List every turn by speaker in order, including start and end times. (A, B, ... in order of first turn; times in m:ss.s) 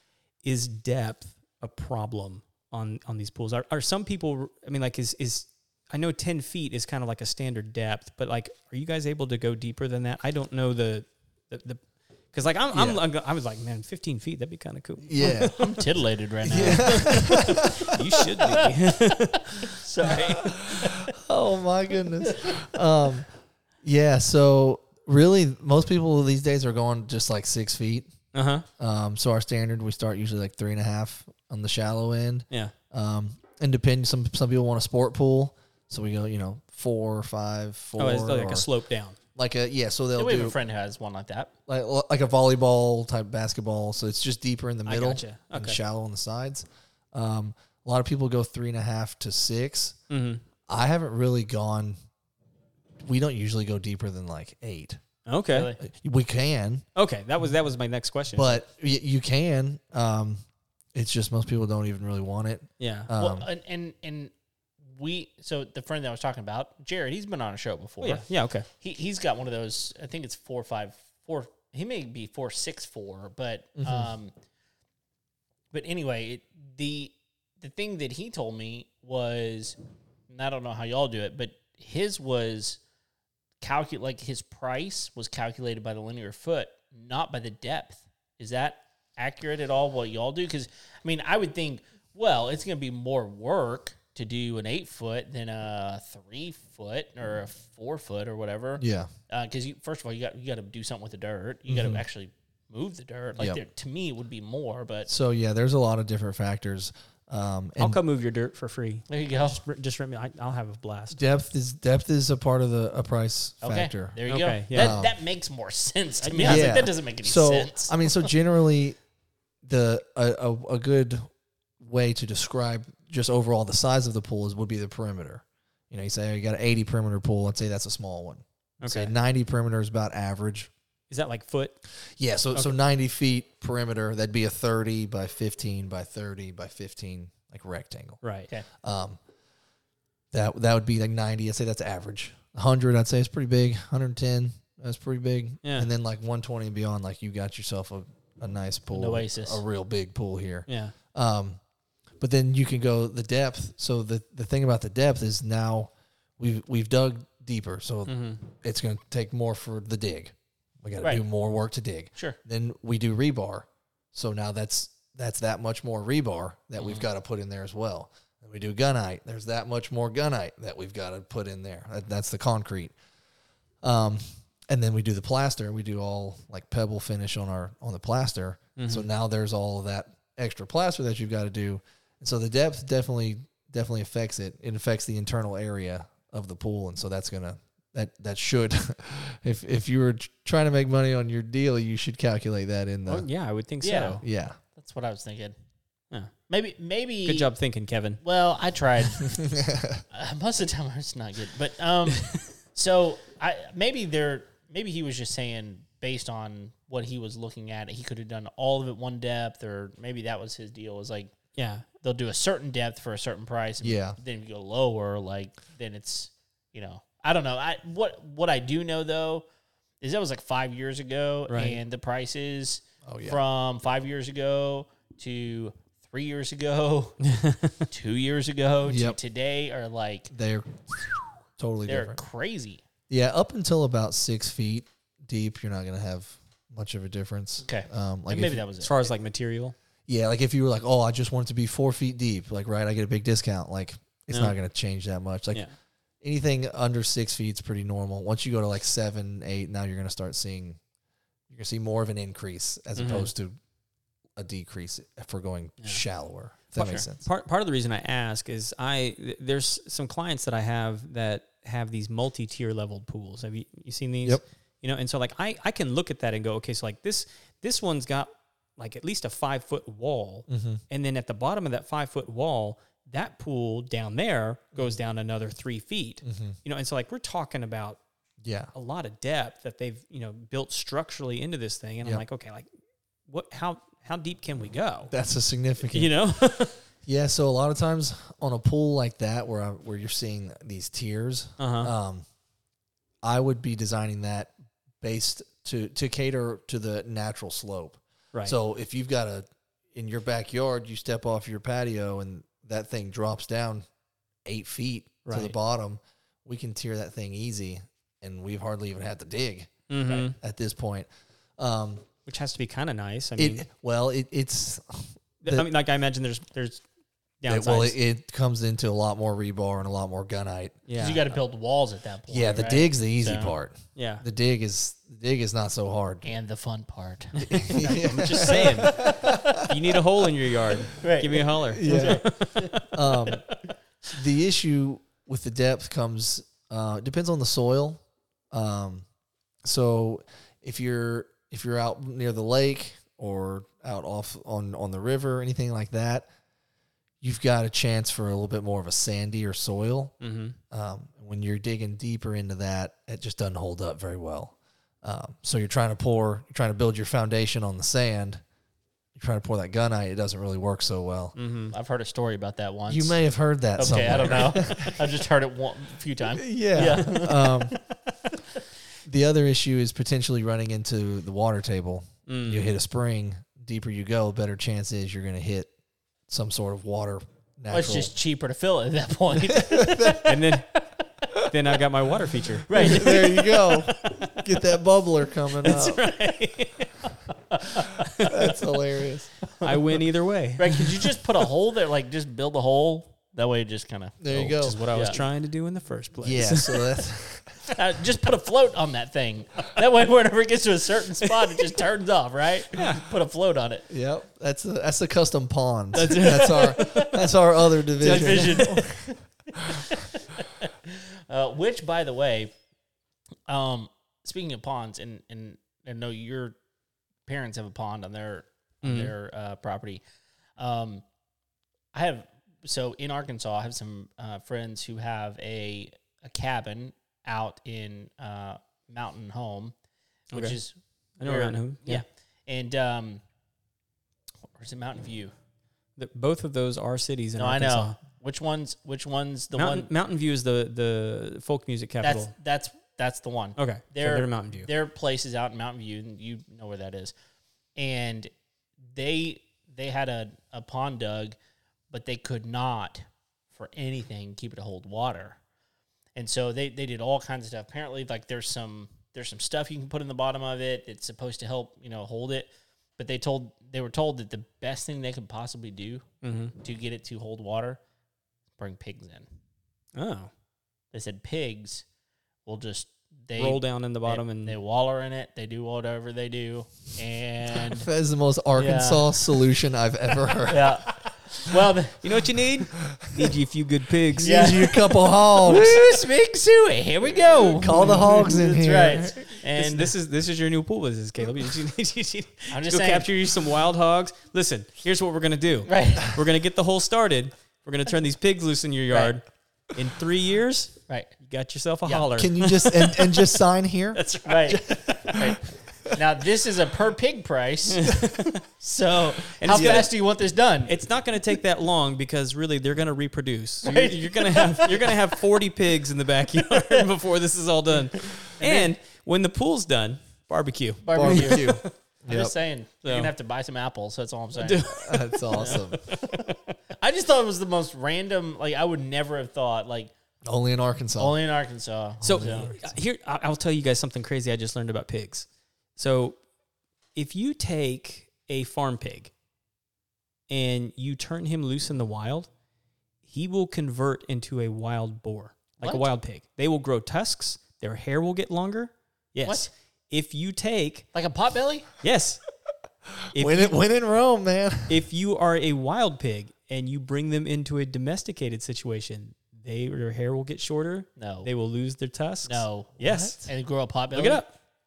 0:00.4-0:11.8 A
0:12.3-0:15.8 A
0:12.7-0:13.0 B
0:15.0-0:15.6 B
0:15.2-0:18.7 C
0:16.4-0:18.0 B
0:16.5-0:20.4 A
0:19.7-0:21.1 C
0:20.4-0:23.3 B
0:22.2-0:22.6 C
0:23.8-0:28.1 B
0:28.3-0:28.7 A
0:28.8-0:38.7 B
0:38.0-0:39.2 A
0:39.4-0:40.6 B
0:40.2-0:41.5 C
0:41.7-0:50.0 B
0:44.9-0:45.8 A
0:50.1-0:50.4 A
0:50.7-0:52.0 B
0:53.0-0:55.0 B
0:55.3-0:55.7 A
0:55.5-0:55.8 C
0:55.8-0:56.8 B
0:57.0-0:58.6 A
0:58.4-1:00.4 B
1:01.0-1:03.5 B
1:02.8-1:03.1 A
1:03.2-1:04.3 C
1:04.9-1:08.3 C
1:08.0-1:08.7 A
1:08.8-1:14.3 C
1:13.8-1:14.1 B
1:15.7-1:19.8 C
1:20.3-1:22.8 C
1:23.6-1:45.1 C
1:38.8-1:39.1 B
1:41.7-1:42.0 B
1:45.1-1:48.0 B
1:47.8-1:51.2 A
1:49.1-1:49.6 C
1:51.1-1:54.2 B
1:53.6-1:58.3 C
1:54.3-1:55.0 A
1:54.7-1:55.2 B
1:56.2-1:56.8 A
1:56.4-1:59.0 B
1:59.6-2:01.3 B
2:01.8-2:10.7 B
2:08.8-2:09.1 A
2:11.1-2:11.8 A
2:12.2-2:18.2 B
2:18.2-2:18.5 A
2:18.8-2:19.2 B
2:20.3-2:31.6 B
2:25.6-2:25.9 A
2:28.9-2:29.6 C
2:30.7-2:30.9 A
2:32.2-2:53.0 B
2:38.1-2:38.4 A
2:46.8-2:47.0 C
2:53.8-3:13.3 B
2:58.8-2:59.1 A
3:13.1-3:14.2 A
3:13.8-3:14.2 C
3:14.2-3:14.6 B
3:14.8-3:15.5 C
3:16.5-3:17.5 C
3:17.3-3:18.2 A
3:18.2-3:19.4 C
3:19.3-3:20.0 B
3:20.1-3:31.3 C
3:31.6-3:31.8 A
3:32.0-3:39.4 C
3:33.8-3:34.2 B
3:40.0-3:47.2 C
3:41.5-3:41.8 A
3:43.0-3:43.4 B
3:47.2-3:47.9 A
3:47.9-3:50.3 C
3:48.8-3:49.2 B
3:50.3-3:52.2 B
3:51.9-3:52.8 C
3:53.1-3:58.6 B
3:57.6-3:59.1 C
3:58.8-3:59.8 A
4:00.1-4:05.6 B
4:06.2-4:10.8 B
4:11.5-4:13.6 B
4:13.0-4:13.3 A
4:14.4-4:17.2 B
4:16.8-4:38.0 A
4:16.8-4:17.0 C
4:30.5-4:30.8 B
4:36.2-4:36.6 B
4:38.4-4:38.7 B
4:38.7-4:42.7 A
4:43.3-4:45.1 A
4:45.1-4:46.1 B
4:45.9-4:46.8 A
4:47.1-4:52.2 B
4:51.6-4:51.9 A
4:53.2-5:03.8 B
5:04.5-5:12.0 B
5:05.2-5:05.5 A
5:09.9-5:10.4 A
5:12.3-5:13.6 A
5:13.4-5:15.7 B
5:15.4-5:16.8 A
5:17.4-5:18.0 A
5:17.5-5:20.8 B
5:20.9-5:21.3 A
5:21.0-5:23.6 C
5:22.3-5:26.3 B
5:24.0-5:24.2 A
5:26.2-5:29.7 C
5:27.4-5:32.9 A
5:27.4-5:29.6 B
5:31.0-5:33.3 C
5:31.8-5:32.3 B
5:32.9-5:33.4 B
5:34.1-5:39.0 B
5:39.6-5:46.3 B
5:47.2-5:50.1 B
5:50.2-5:50.6 A
5:50.7-5:58.4 B
5:59.2-6:01.4 B
6:01.4-6:01.8 A
6:01.7-6:03.2 C
6:02.9-6:05.0 B
6:03.8-6:07.9 C
6:06.3-6:07.8 B
6:09.0-6:15.7 B
6:12.3-6:12.7 A
6:16.3-6:18.1 B
6:17.7-6:20.8 C
6:19.3-6:20.4 B
6:20.2-6:20.7 A
6:21.5-6:23.1 A
6:22.7-6:23.8 C
6:22.8-6:26.0 B
6:24.0-6:24.4 A
6:25.6-6:27.0 A
6:27.5-6:28.0 C
6:28.0-6:28.5 A
6:28.2-6:29.3 B
6:29.6-6:31.0 A
6:30.6-6:35.2 C
6:34.2-6:34.8 B
6:34.6-6:36.9 A
6:36.2-6:37.7 B
6:37.7-6:43.9 C
6:42.8-6:43.0 A
6:43.9-6:49.0 B
6:45.9-6:47.2 A
6:48.0-6:52.5 C
6:48.0-6:48.8 A
6:53.5-6:56.6 C
6:57.3-7:00.0 C
6:58.8-6:59.1 A
7:00.6-7:01.0 C
7:01.9-7:09.7 C
7:10.3-7:13.2 C
7:11.2-7:12.0 A
7:14.6-7:15.3 C
7:16.0-7:18.0 A
7:17.4-7:19.9 C
7:19.6-7:22.3 A
7:22.0-7:27.1 C
7:23.6-7:24.7 A
7:27.8-7:28.3 C
7:28.9-7:31.4 C
7:31.9-7:35.4 C
7:36.2-7:46.0 C
7:46.2-7:46.6 A
7:46.6-7:47.8 C
7:48.6-7:49.3 C
7:50.0-7:50.3 A
7:50.9-7:51.8 C
7:52.5-7:57.9 C
7:53.4-7:54.6 A
7:57.6-8:00.8 B
7:58.6-7:59.2 C
8:00.4-8:02.0 C
8:02.0-8:04.5 A
8:02.9-8:03.3 B
8:04.2-8:06.0 B
8:04.2-8:09.9 C
8:07.6-8:09.3 B
8:07.9-8:08.2 A
8:09.5-8:23.3 A
8:12.5-8:13.1 C
8:15.7-8:16.2 C
8:22.2-8:25.4 B
8:23.9-8:25.2 A
8:24.2-8:30.7 C
8:27.7-8:28.4 A
8:29.4-8:29.9 A
8:30.7-8:41.7 A
8:33.6-8:35.2 C
8:36.4-8:36.9 C
8:38.2-8:38.7 C
8:40.8-8:44.8 C
8:41.0-8:42.4 B
8:42.8-8:43.1 A
8:44.4-8:46.4 A
8:44.7-8:45.8 B
8:45.4-8:49.9 C
8:50.2-8:51.2 B
8:51.0-8:52.5 C
8:52.0-8:52.7 B
8:52.0-8:56.2 A
8:57.0-8:59.1 A
9:00.3-9:02.3 A
9:03.1-9:10.9 A
9:05.6-9:05.9 C
9:09.2-9:09.5 C
9:10.9-9:11.7 C
9:11.8-9:12.2 A
9:13.0-9:14.8 B
9:13.1-9:13.6 A
9:14.7-9:23.3 A
9:21.0-9:21.3 C
9:22.3-9:24.2 C
9:22.8-9:23.2 B
9:23.9-9:24.3 A